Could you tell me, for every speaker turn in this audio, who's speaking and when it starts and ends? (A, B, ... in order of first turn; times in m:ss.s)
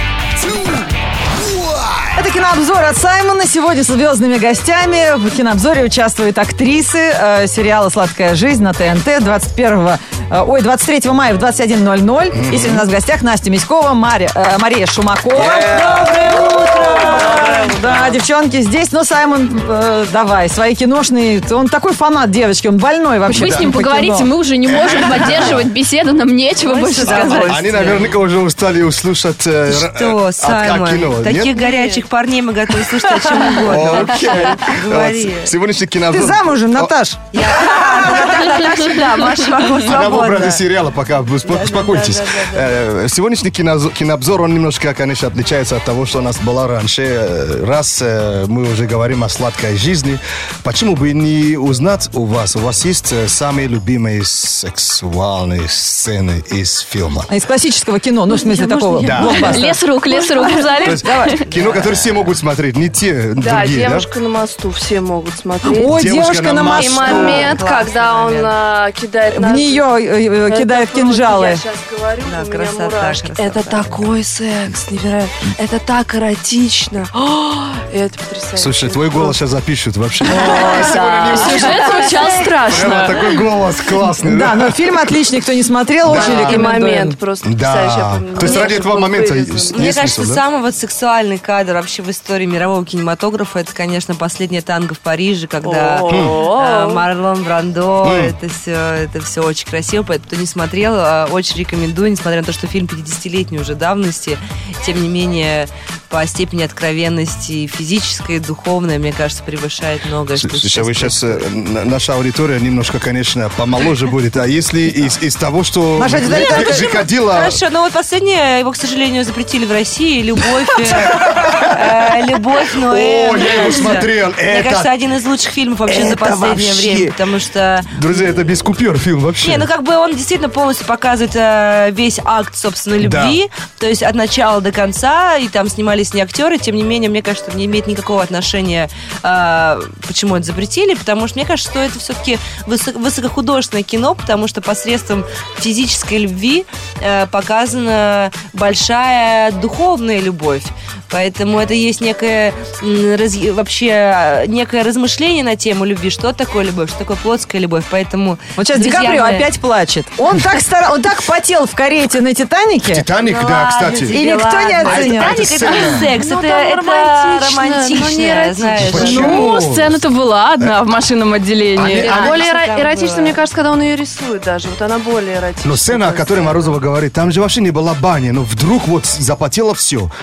0:00.4-0:02.2 A
0:02.1-0:24.3 B
0:12.3-0:12.9 A
0:15.4-0:16.2 A
0:15.4-0:18.0 C
0:23.2-0:27.5 D
0:23.4-0:23.6 A
0:24.7-0:25.6 A
0:26.6-0:28.2 C
0:27.0-0:31.5 A
0:29.7-0:35.5 C
0:31.5-0:32.0 E
0:33.6-0:36.9 A
0:36.1-0:38.5 B
0:37.3-0:40.6 C
0:39.8-0:57.3 A
0:41.4-0:42.8 C
0:57.3-1:01.4 B
0:58.4-0:59.6 C
0:59.0-1:01.5 D
0:59.0-0:59.5 A
1:00.8-1:04.1 A
1:01.5-1:02.2 C
1:03.4-1:06.0 E
1:05.6-1:07.5 B
1:05.8-1:07.6 A
1:06.7-1:09.9 E
1:07.2-1:08.5 C
1:09.3-1:11.6 B
1:10.5-1:19.4 E
1:12.2-1:13.9 C
1:18.6-1:24.8 A
1:20.3-1:21.1 E
1:20.3-1:23.4 D
1:21.3-1:22.5 B
1:24.2-1:27.2 B
1:26.0-1:26.7 A
1:26.1-1:29.9 E
1:27.4-1:30.4 A
1:28.4-1:28.8 C
1:29.7-1:51.4 C
1:35.6-1:37.0 E
1:36.1-1:36.4 A
1:38.0-1:38.4 A
1:50.4-1:57.6 A
1:56.0-1:56.9 B
1:56.3-2:08.3 C
2:01.2-2:01.8 A
2:02.8-2:04.9 A
2:05.9-2:07.2 A
2:07.9-2:09.7 A
2:09.4-2:39.5 C
2:13.0-2:13.4 A
2:38.6-2:43.1 B
2:42.8-2:44.2 A
2:43.2-2:49.3 C
2:44.1-2:45.4 B
2:44.8-2:46.1 A
2:45.5-2:49.2 E
2:48.8-2:50.0 A
2:49.0-2:49.5 B
2:49.0-2:52.4 D
2:51.7-2:52.3 A
2:51.8-2:53.4 C
2:52.0-2:56.7 E
2:55.6-3:00.1 A